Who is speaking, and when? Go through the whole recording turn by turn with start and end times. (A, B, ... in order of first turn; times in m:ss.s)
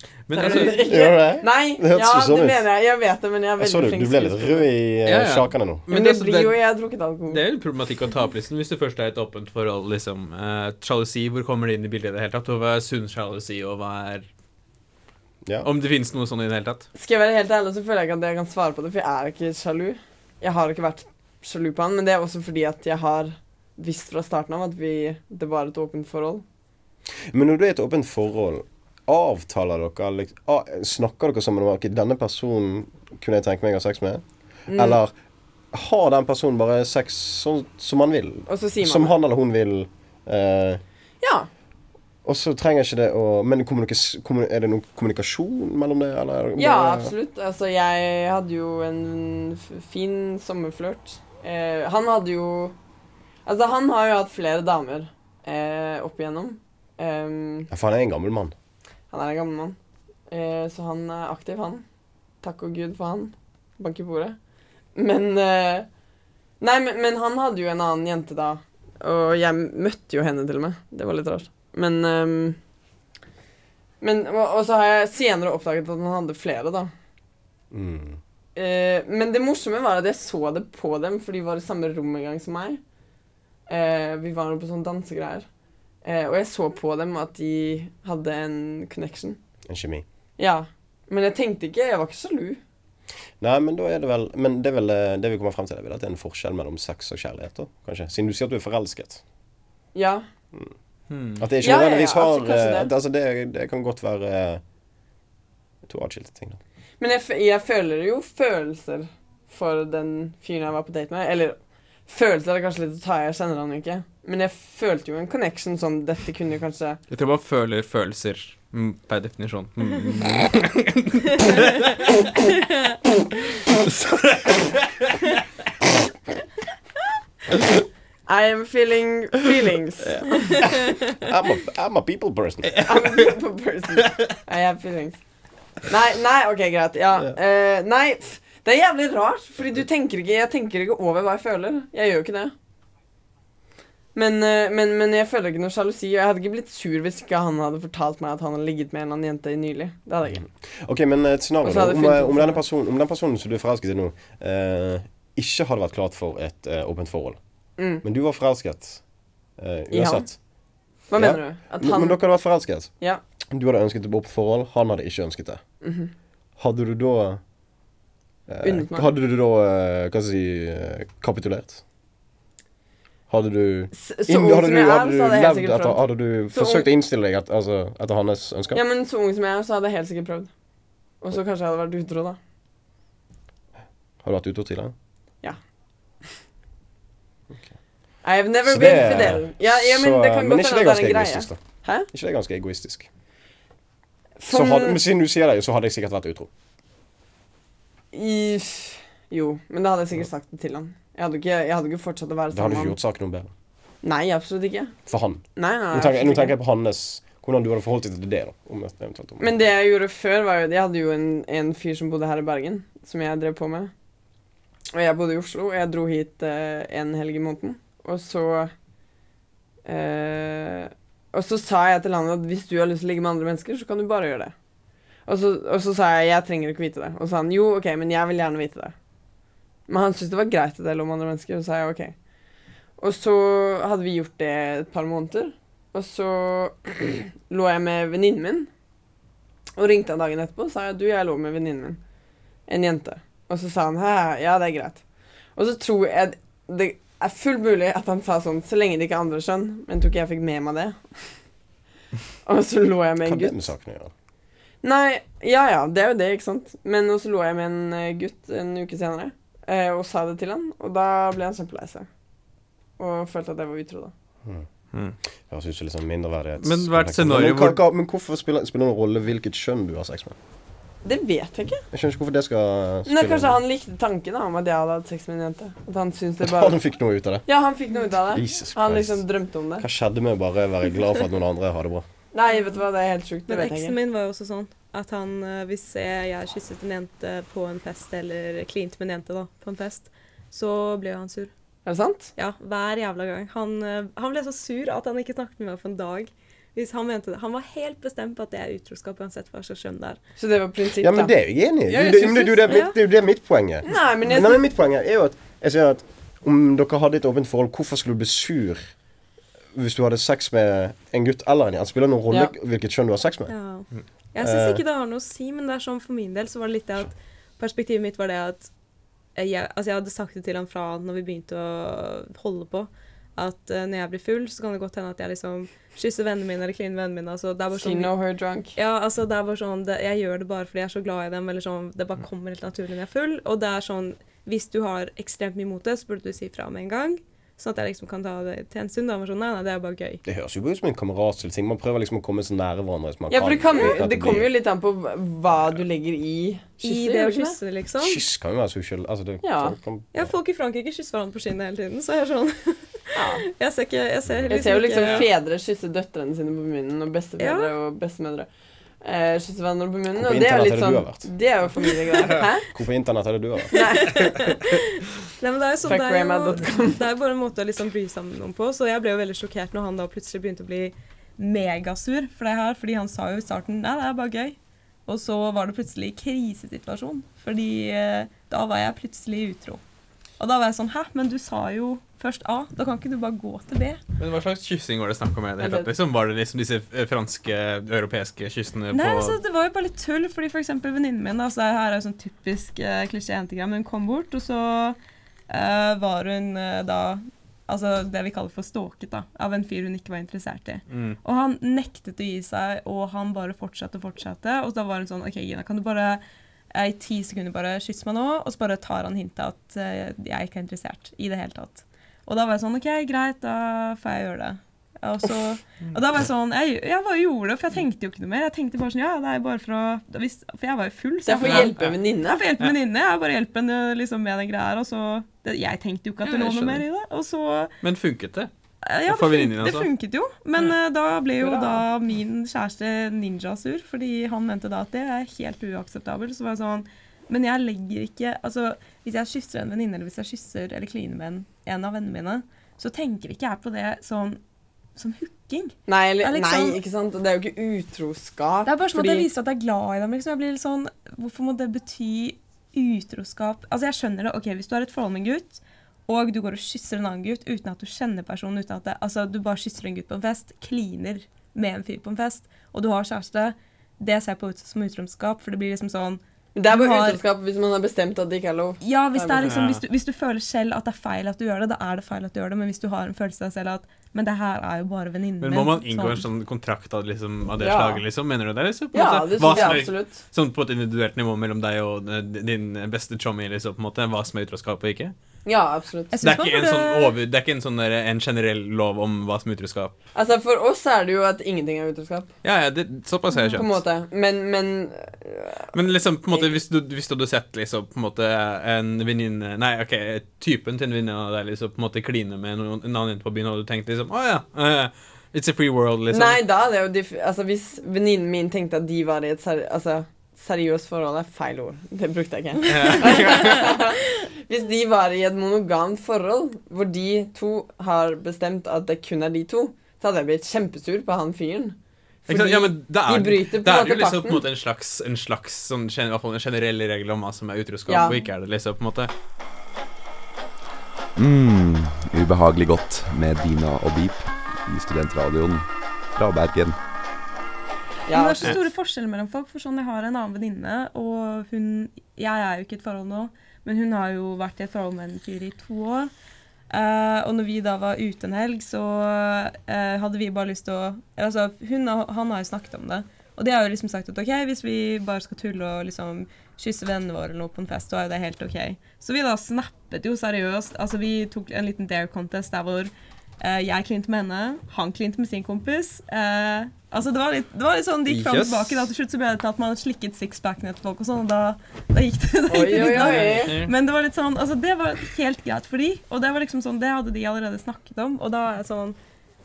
0:00.3-0:00.8 A
0:00.3-0:04.7 B
0:00.4-0:00.8 C
0:00.8-0:02.7 D
0:03.6-0:05.8 D
0:05.0-0:06.6 A
0:05.9-0:07.4 B
0:07.3-0:14.3 A
0:15.6-0:16.9 A
0:17.0-0:26.4 B
0:27.3-0:35.1 D
0:34.7-0:35.0 B
0:35.7-0:40.8 D
0:38.5-0:39.1 B
0:41.2-0:41.5 B
0:42.2-0:47.1 D
0:46.6-0:52.8 B
0:53.4-0:57.7 B
0:57.7-0:58.5 D
0:59.1-0:59.8 B
1:00.3-1:01.8 B
1:02.4-1:04.4 B
1:05.0-1:05.9 B
1:06.6-1:12.6 B
1:14.0-1:16.9 B
1:17.7-1:18.2 D
1:18.6-1:22.8 B
1:23.7-1:25.5 B
1:26.0-1:29.4 B
1:29.7-1:30.0 D
1:30.4-1:32.6 B
1:33.4-1:39.2 D
1:39.9-1:40.2 B
1:41.1-1:41.5 A
1:41.4-1:44.6 D
1:41.6-1:42.9 B
1:45.8-1:46.6 D
1:47.0-1:57.0 B
1:57.1-2:02.3 A
2:03.7-2:05.3 A
2:08.3-2:10.6 B
2:11.1-2:12.9 D
2:12.7-2:13.2 A
2:12.8-2:15.2 B
2:15.9-2:22.5 B
2:24.2-2:30.5 B
2:30.4-2:37.4 D
2:31.6-2:32.6 B
2:37.8-2:38.0 B
2:38.0-2:39.0 D
2:39.6-2:40.4 D
2:39.9-2:40.3 B
2:41.1-2:42.2 B
2:41.1-2:42.9 D
2:43.5-2:45.6 D
2:45.8-2:46.1 B
2:46.6-2:47.4 D
2:48.5-2:51.8 D
2:48.6-2:49.1 B
2:53.3-2:58.8 D
2:53.9-2:56.0 B
2:56.5-2:56.9 B
2:58.7-3:00.5 B
3:01.2-3:02.4 B
3:04.2-3:04.9 D
3:08.2-3:12.1 B
3:08.6-3:13.1 D
3:14.4-3:15.0 B
3:14.5-3:16.5 D
3:18.1-3:23.0 B
3:22.5-3:23.5 D
3:24.0-3:25.0 B
3:25.1-3:29.7 D
3:25.6-3:26.6 B
3:29.4-3:33.9 B
3:34.9-3:38.7 B
3:39.9-3:44.5 B
3:45.3-3:48.9 B
3:49.9-3:52.2 B
3:53.0-3:58.7 B
3:59.8-4:02.0 B
4:02.7-4:05.0 B
4:05.6-4:11.0 B
4:12.5-4:13.6 B
4:13.2-4:14.1 D
4:14.8-4:22.1 B
4:23.0-4:24.1 B
4:25.5-4:30.4 D
4:26.6-4:27.8 A
4:31.0-4:31.8 B
4:31.9-4:33.6 D
4:33.1-4:36.8 B
4:36.4-4:37.4 D
4:37.5-4:39.9 B
4:38.3-4:39.2 D
4:39.8-4:42.0 D
4:42.3-4:44.0 B
4:43.5-4:51.5 C
4:51.8-4:52.3 B
4:52.4-5:00.2 C
5:00.4-5:01.3 B
5:01.0-5:08.9 D
5:01.9-5:02.7 A
5:02.6-5:03.0 C
5:03.9-5:04.6 B
5:09.7-5:13.5 D
5:13.5-5:18.7 C
5:14.4-5:14.8 D
5:19.4-5:28.1 C
5:27.7-5:28.7 B
5:28.8-5:40.2 C
5:40.3-5:44.5 D
5:43.3-5:47.6 B
5:46.8-5:48.2 C
5:48.0-5:50.3 D
5:49.4-5:49.8 B
5:50.1-5:55.3 C
5:53.2-5:53.4 B
5:54.5-5:58.5 B
5:55.0-5:55.3 A
5:57.4-5:57.7 C
5:59.0-6:02.7 B
6:00.2-6:01.3 D
6:02.7-6:03.8 D
6:03.7-6:04.6 B
6:03.7-6:19.8 C
6:05.9-6:07.0 B
6:20.4-6:24.0 C
6:24.2-6:29.4 A
6:25.6-6:25.9 B
6:28.9-6:35.0 C
6:35.5-6:46.2 C
6:40.9-6:41.2 A
6:46.7-7:07.7 C
7:01.2-7:02.5 B
7:01.4-7:02.0 A
7:06.2-7:06.8 A
7:07.8-7:08.5 A
7:08.8-7:24.4 C
7:09.1-7:09.9 A
7:11.4-7:11.8 B
7:25.0-7:26.8 C
7:25.9-7:29.3 B
7:28.6-7:47.2 C
7:46.6-7:49.6 B
7:48.8-7:56.3 C
7:49.4-7:49.8 A
7:55.4-8:05.1 A
7:57.6-7:58.0 B
7:58.9-8:00.2 B
7:59.5-7:59.8 C
8:05.5-8:06.1 B
8:06.1-8:07.2 C
8:06.2-8:09.9 A
8:10.2-8:12.3 B
8:12.4-8:13.8 A
8:13.6-8:15.7 B
8:15.7-8:26.4 A
8:26.1-8:44.4 B
8:32.7-8:33.7 A
8:42.3-8:49.1 A
8:47.9-8:48.2 B
8:51.2-8:56.8 E
8:58.1-8:58.6 B
8:58.1-9:06.1 C
9:06.7-9:39.0 C
9:28.1-9:28.9 A
9:32.5-9:33.7 B
9:32.7-9:33.7 A